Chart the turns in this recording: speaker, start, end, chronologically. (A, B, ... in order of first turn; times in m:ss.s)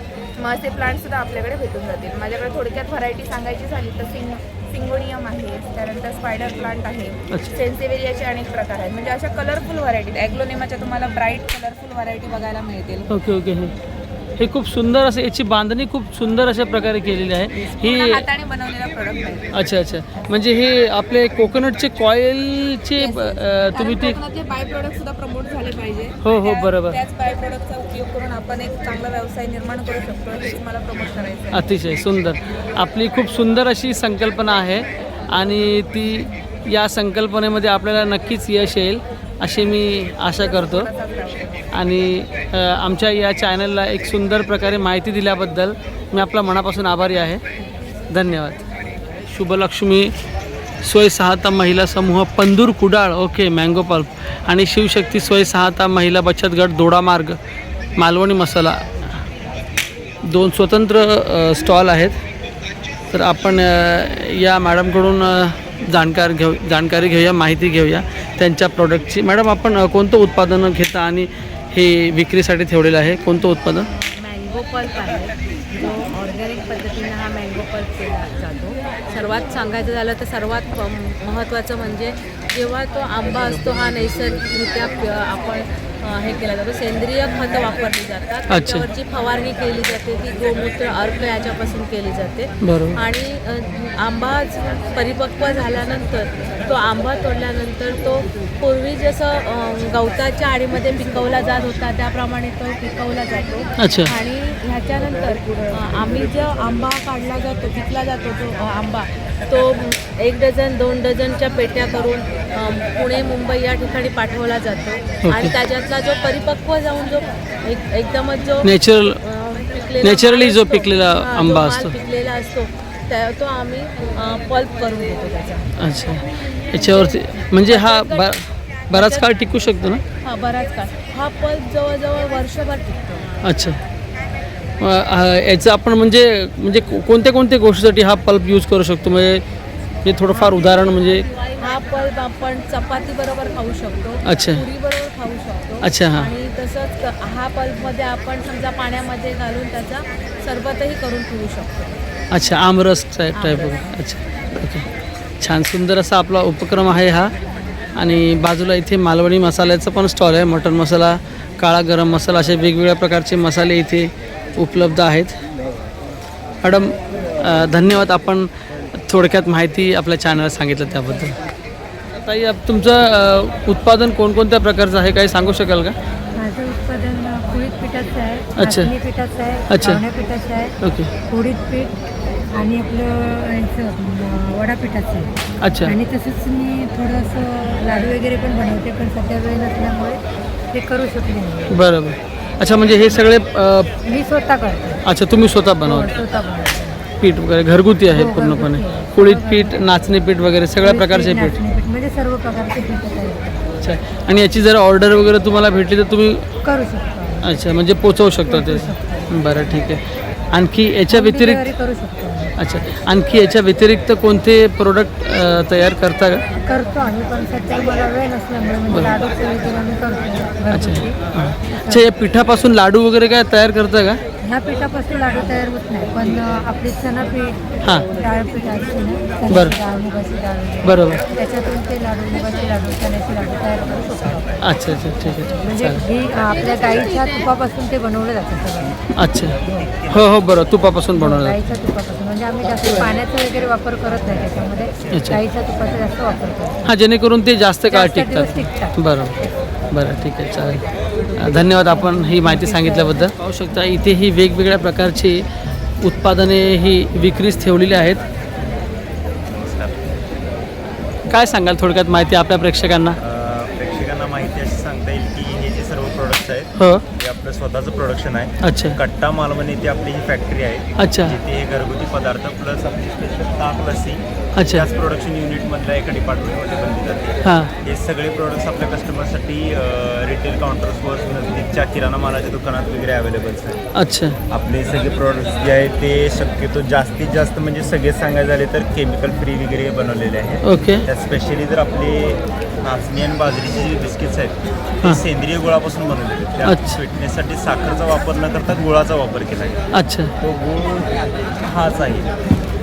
0:00.4-0:13.1 A
0:13.1-0:13.7 B
0:14.4-0:18.2 B
0:17.5-0:19.5 A
0:19.5-0:24.2 B
0:23.0-0:31.7 A
0:26.2-0:27.0 B
0:31.5-0:40.9 B
0:40.3-0:41.7 A
0:41.7-0:47.4 B
0:48.1-0:48.6 B
0:49.3-0:50.1 B
0:50.8-0:57.4 B
0:58.0-0:58.9 B
1:00.2-1:02.2 B
1:03.1-1:13.9 B
1:13.8-2:05.7 C
1:28.5-1:28.9 B
1:32.6-1:33.0 B
1:43.8-1:44.1 B
1:55.2-1:55.5 B
1:58.6-1:59.2 B
2:00.0-2:01.9 B
2:05.8-2:10.0 B
2:06.7-2:08.3 C
2:08.9-2:09.4 C
2:10.2-2:13.3 C
2:13.4-2:13.8 B
2:14.8-2:19.4 B
2:20.0-2:21.2 B
2:20.3-2:32.0 C
2:24.2-2:24.6 B
2:25.8-2:26.3 B
2:32.3-2:34.9 B
2:33.3-2:33.9 C
2:35.4-2:37.3 B
2:38.0-2:45.4 B
2:46.6-2:51.4 B
2:52.2-2:55.9 B
2:56.4-3:00.7 D
2:58.6-2:58.9 B
2:59.7-3:00.0 B
3:00.8-3:01.1 B
3:01.3-3:01.9 D
3:02.5-3:05.3 D
3:05.6-3:06.0 B
3:05.8-3:10.2 D
3:10.7-3:11.8 D
3:11.7-3:13.9 B
3:14.0-3:15.0 D
3:15.0-3:16.1 B
3:15.8-3:17.0 D
3:17.2-3:21.6 B
3:18.1-3:20.0 D
3:20.8-3:23.6 D
3:23.8-3:26.4 B
3:26.6-3:27.5 D
3:27.4-3:30.0 B
3:28.4-3:29.5 D
3:30.5-3:31.7 B
3:31.1-3:32.6 D
3:32.6-3:36.4 B
3:36.5-3:41.2 D
3:38.9-3:39.2 B
3:40.7-3:44.2 B
3:44.4-3:59.9 D
3:49.5-3:49.8 B
3:50.8-3:51.2 B
3:54.6-3:56.0 B
3:59.2-3:59.6 B
3:59.6-4:00.3 E
4:00.1-4:01.6 B
4:01.1-4:06.8 D
4:05.1-4:05.4 B
4:06.8-4:09.4 B
4:07.9-4:09.0 D
4:09.9-4:10.8 B
4:11.3-4:13.3 D
4:11.4-4:15.4 B
4:16.0-4:18.2 B
4:19.4-4:20.0 E
4:21.3-4:23.2 B
4:23.2-4:43.8 E
4:26.8-4:27.0 B
4:28.6-4:29.0 B
4:31.0-4:31.4 B
4:34.6-4:34.8 B
4:37.4-4:37.7 B
4:43.9-4:44.4 B
4:44.5-5:02.3 E
4:50.6-4:51.0 B
4:56.6-4:57.0 B
4:59.9-5:00.3 B